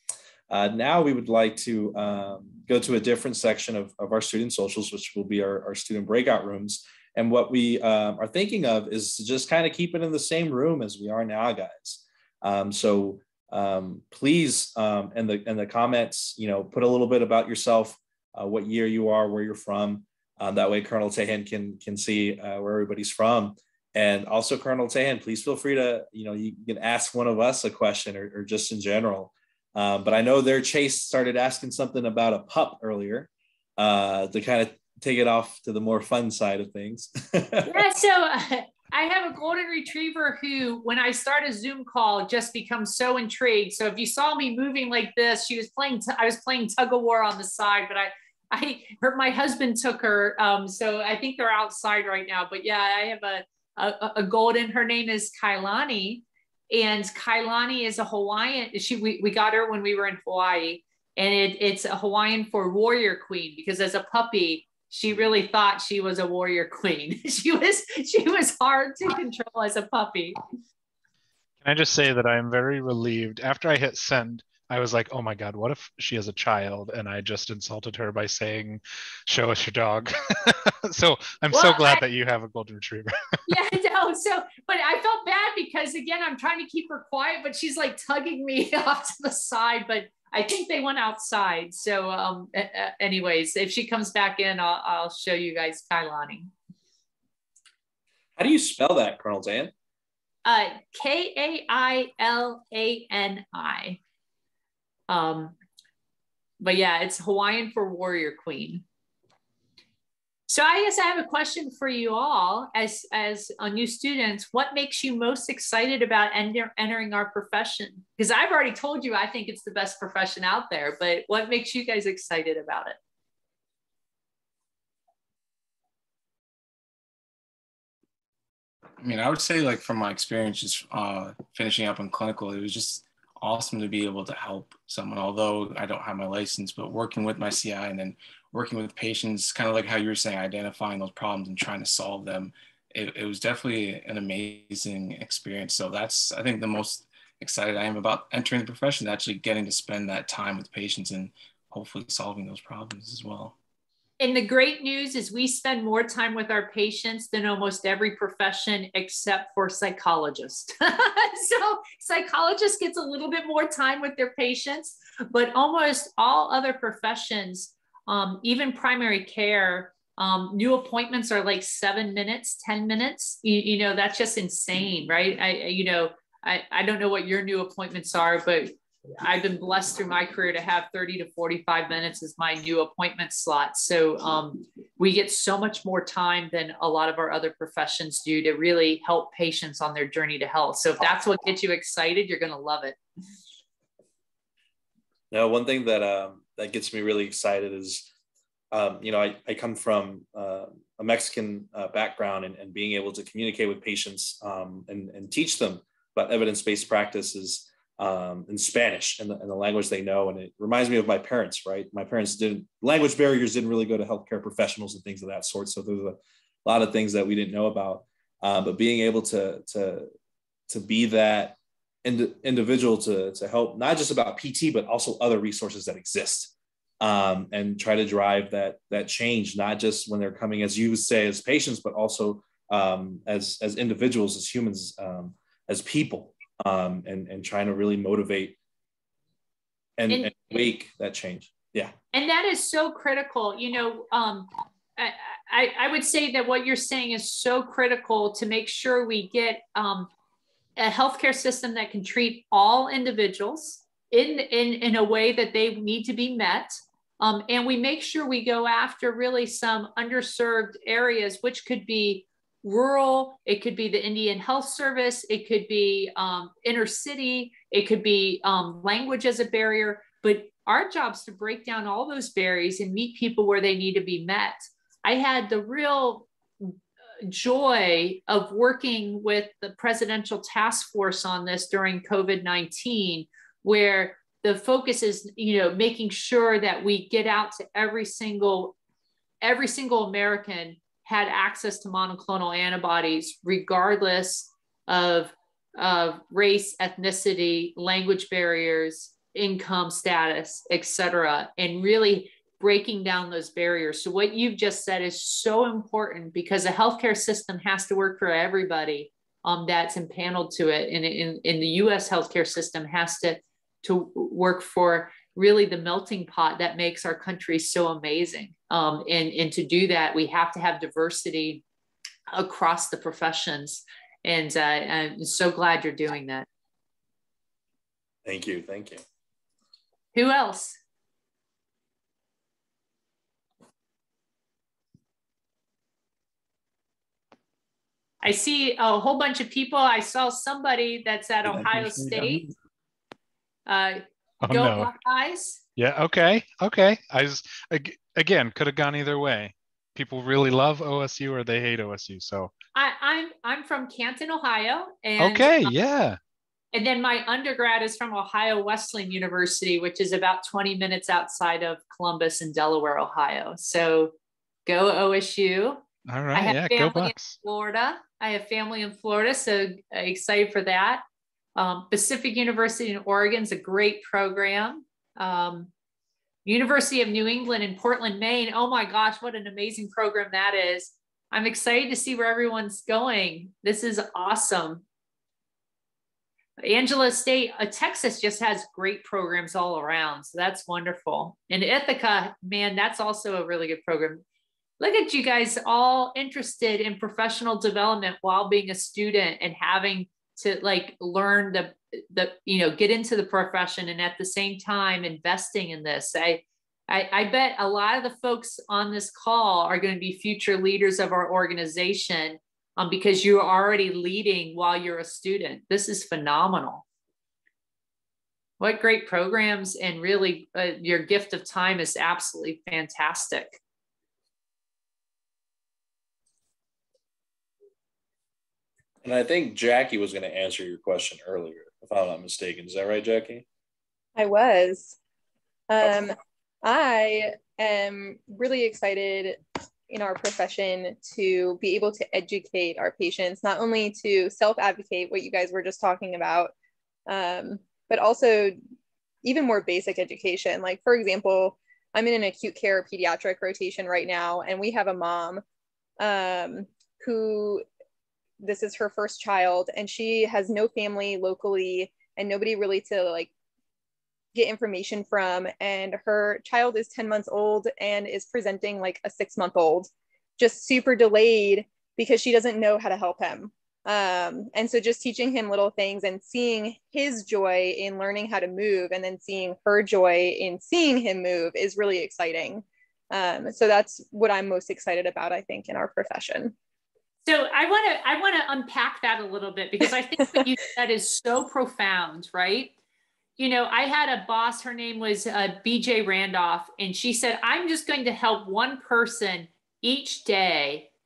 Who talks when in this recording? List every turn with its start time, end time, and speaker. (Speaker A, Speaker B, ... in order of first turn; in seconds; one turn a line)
Speaker A: 0.5-37.8
Speaker B: 37.7-70.3
Speaker C: 71.6-83.1
Speaker B: 81.5-82.0
Speaker B: 83.5-96.5
Speaker A: 98.4-99.7
Speaker B: 100.4-104.0
Speaker B: 105.1-105.5
Speaker B: 106.6-108.8
Speaker B: 110.5-123.0
Speaker D: 129.0-153.6
Speaker B: 154.2-193.0
Speaker A: 195.3-198.1
Speaker A: 198.7-220.1
Speaker A: 220.7-238.6
Speaker A: 240.0-241.9
Speaker B: 240.1-240.3
Speaker B: 242.1-250.1
Speaker B: 250.8-288.7
Speaker B: 289.4-321.6
Speaker B: 322.3-326.4
Speaker A: 328.2-329.0
Speaker B: 330.1-330.8
Speaker B: 338.2-342.5
Speaker C: 341.5-342.4
Speaker B: 343.7-345.6
Speaker C: 344.4-344.9
Speaker C: 345.8-352.5
Speaker B: 352.7-355.7
Speaker C: 355.2-356.2
Speaker B: 356.7-364.1
Speaker B: 364.6-365.8
Speaker C: 366.1-367.3
Speaker B: 366.3-371.0
Speaker B: 371.6-375.7
Speaker B: 376.4-384.8
Speaker B: 386.6-394.2
Speaker B: 394.8-416.8
Speaker B: 418.6-423.6
Speaker A: 429.0-433.4
Speaker E: 434.1-435.0
Speaker E: 435.7-446.5
Speaker E: 447.1-448.6
Speaker E: 449.2-455.4
Speaker E: 456.0-457.6
Speaker E: 458.4-463.3
Speaker E: 464.3-486.5
Speaker B: 487.2-492.7
Speaker B: 493.4-500.9